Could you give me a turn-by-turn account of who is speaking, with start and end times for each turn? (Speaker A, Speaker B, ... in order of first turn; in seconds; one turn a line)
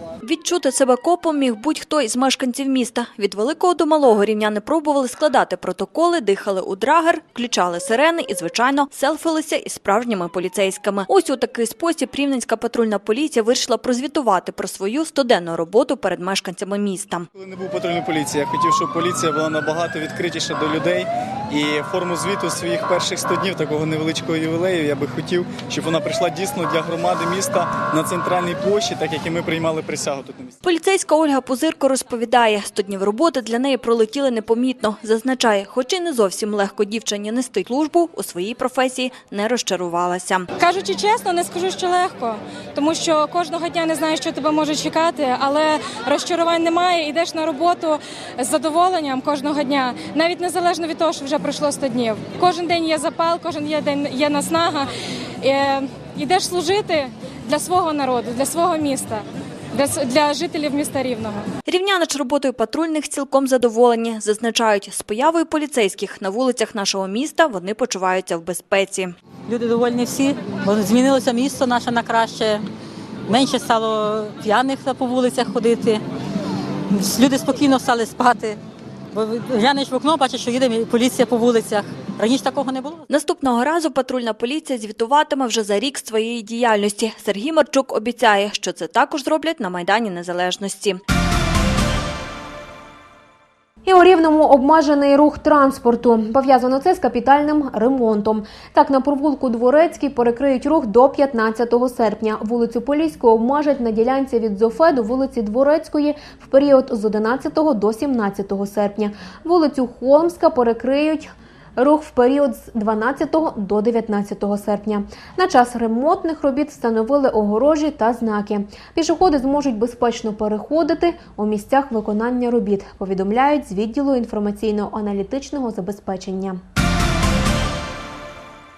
Speaker A: 0.2-17.3
Speaker B: 17.4-30.5
Speaker A: 30.6-40.5
Speaker C: 40.6-54.9
Speaker C: 55.4-61.5
Speaker A: 61.7-69.1
Speaker D: 69.5-72.6
Speaker D: 73.3-76.0
Speaker D: 76.9-78.6
Speaker D: 79.1-83.0
Speaker A: 83.1-91.0
Speaker E: 93.8-126.6